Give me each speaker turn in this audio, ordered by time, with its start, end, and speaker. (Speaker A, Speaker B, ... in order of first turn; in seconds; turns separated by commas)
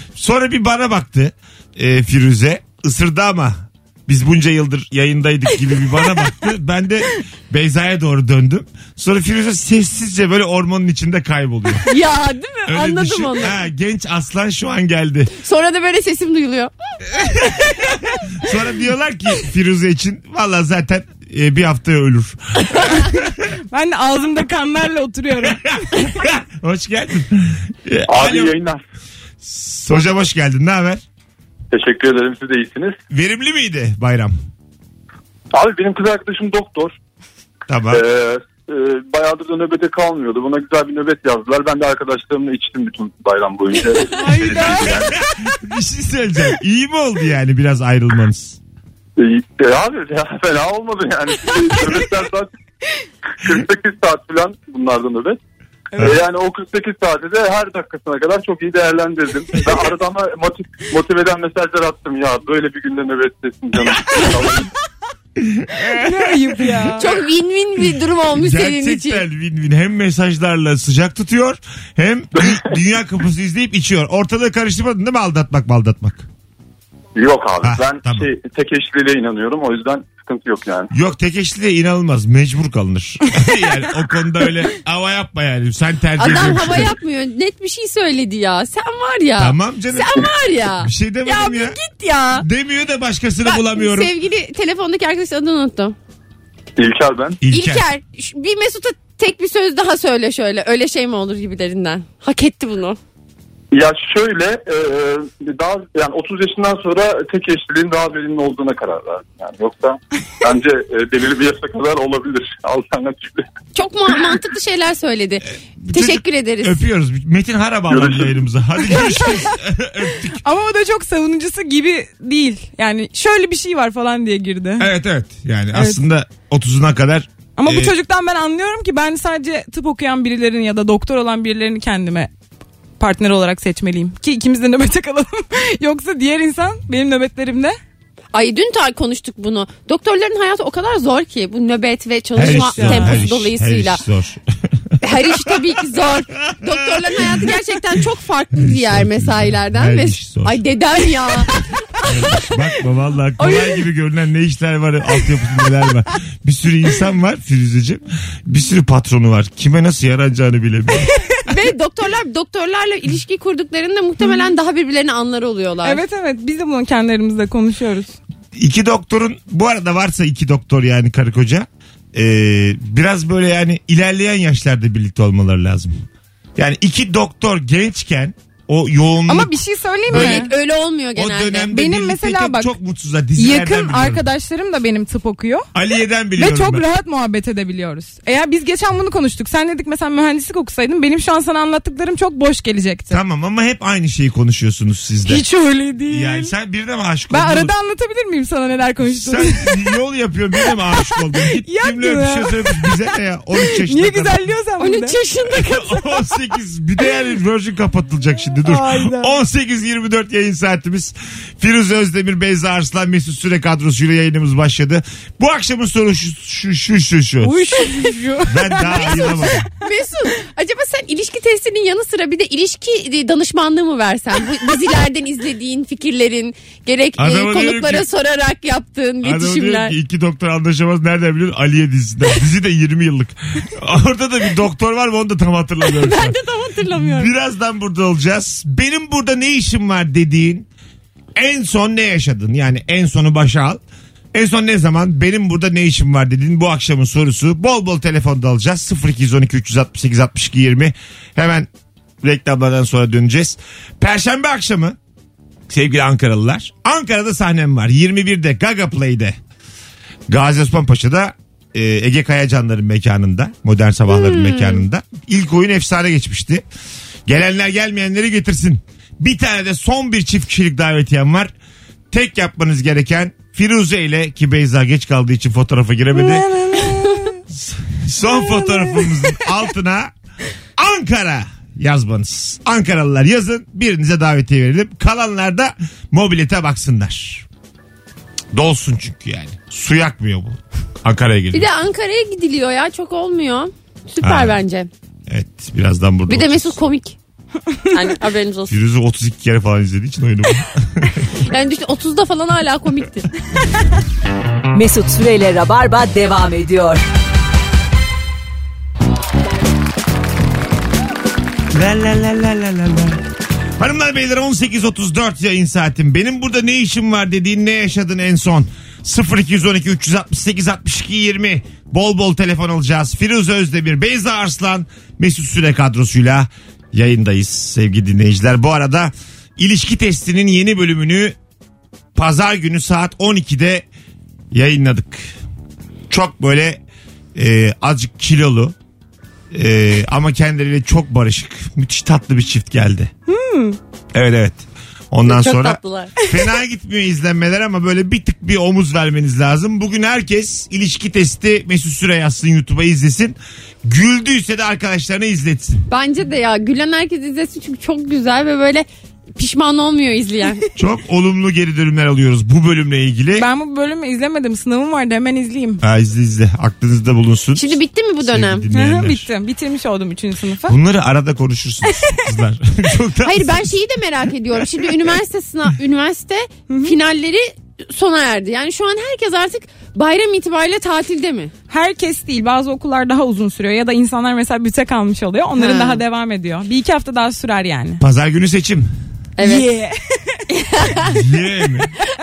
Speaker A: 0.1-11.9, Speaker B: 11.8-13.6, Speaker A: 12.7-15.3, Speaker B: 15.4-16.7, Speaker A: 17.2-23.3, Speaker C: 22.9-23.2, Speaker C: 23.7-26.1, Speaker A: 25.4-28.6, Speaker D: 28.1-28.8, Speaker A: 29.4-31.0, Speaker D: 31.7-33.0, Speaker A: 33.1-34.3, Speaker D: 35.5-36.9, Speaker A: 37.7-38.0, Speaker D: 37.9-45.1, Speaker C: 44.1-45.2, Speaker A: 44.4-48.6, Speaker D: 49.2-52.5, Speaker D: 53.4-55.4, Speaker D: 56.0-64.7, Speaker A: 65.4-67.1, Speaker C: 65.9-67.0, Speaker B: 67.0-69.2, Speaker A: 68.3-76.3, Speaker D: 77.2-80.9, Speaker A: 77.6-78.3, Speaker A: 80.9-87.0, Speaker B: 86.2-92.5, Speaker A: 89.4-91.8, Speaker A: 92.4-94.1, Speaker B: 93.4-96.0, Speaker D: 96.8-97.4, Speaker A: 97.4-97.8, Speaker B: 97.5-103.0, Speaker D: 103.7-113.4, Speaker B: 113.7-116.8, Speaker A: 115.8-120.4, Speaker D: 117.9-118.4, Speaker C: 118.9-119.4, Speaker C: 120.4-124.9, Speaker A: 124.8-127.9, Speaker C: 125.7-126.0, Speaker C: 127.6-132.3, Speaker C: 133.0-137.8, Speaker B: 138.3-144.0, Speaker A: 142.3-145.7, Speaker C: 142.4-143.2, Speaker B: 145.0-152.5, Speaker A: 146.5-147.6, Speaker A: 148.5-150.6, Speaker A: 152.1-161.1, Speaker B: 153.4-153.8, Speaker B: 161.4-166.0, Speaker C: 165.8-168.1, Speaker A: 168.5-175.9, Speaker A: 176.6-179.5, Speaker C: 179.3-180.5, Speaker A: 180.1-180.5, Speaker B: 180.1-181.7, Speaker A: 181.1-184.2, Speaker C: 181.7-182.7, Speaker C: 183.4-185.7, Speaker A: 185.7-186.8, Speaker C: 186.3-193.2, Speaker A: 193.1-195.4, Speaker C: 195.2-196.5, Speaker A: 196.1-197.7, Speaker C: 197.3-199.8, Speaker A: 199.1-204.4, Speaker C: 200.7-202.9, Speaker C: 203.6-205.2, Speaker B: 204.8-206.2, Speaker A: 205.5-217.8, Speaker C: 208.6-209.4, Speaker C: 217.4-219.6, Speaker A: 218.5-219.7, Speaker B: 218.9-229.9, Speaker A: 227.2-228.1, Speaker A: 229.2-236.4, Speaker B: 235.8-237.3, Speaker A: 236.9-240.7, Speaker A: 241.3-243.8, Speaker A: 244.3-251.7, Speaker A: 252.2-255.0, Speaker A: 255.7-259.4, Speaker A: 260.3-266.6, Speaker B: 264.1-264.8, Speaker A: 267.3-271.5, Speaker A: 272.1-276.5, Speaker C: 276.1-277.4, Speaker A: 277.5-280.1, Speaker C: 278.2-279.4, Speaker A: 280.8-287.4, Speaker A: 288.5-291.7, Speaker B: 291.5-294.9, Speaker A: 294.2-294.6, Speaker A: 295.3-296.8, Speaker B: 296.3-297.2, Speaker B: 297.9-298.8, Speaker A: 298.7-301.3, Speaker B: 301.4-303.3, Speaker E: 304.7-307.0, Speaker A: 311.7-313.2, Speaker A: 313.8-331.4, Speaker A: 332.1-333.9, Speaker A: 334.5-335.3, Speaker A: 336.1-336.8, Speaker A: 337.3-338.7, Speaker A: 339.5-343.1, Speaker C: 343.3-343.8, Speaker A: 344.1-355.8, Speaker B: 345.2-346.1, Speaker B: 355.9-360.6, Speaker A: 360.8-363.5, Speaker C: 363.3-365.8, Speaker A: 365.8-369.3, Speaker B: 367.5-368.6, Speaker C: 368.7-370.8, Speaker A: 370.6-373.8, Speaker C: 371.9-372.2, Speaker B: 373.2-381.5, Speaker A: 374.6-375.1, Speaker C: 376.7-376.9, Speaker C: 381.7-388.0, Speaker B: 385.6-386.0, Speaker A: 388.0-388.9, Speaker B: 389.4-389.6, Speaker C: 389.4-390.4, Speaker B: 390.5-391.2, Speaker A: 391.1-391.9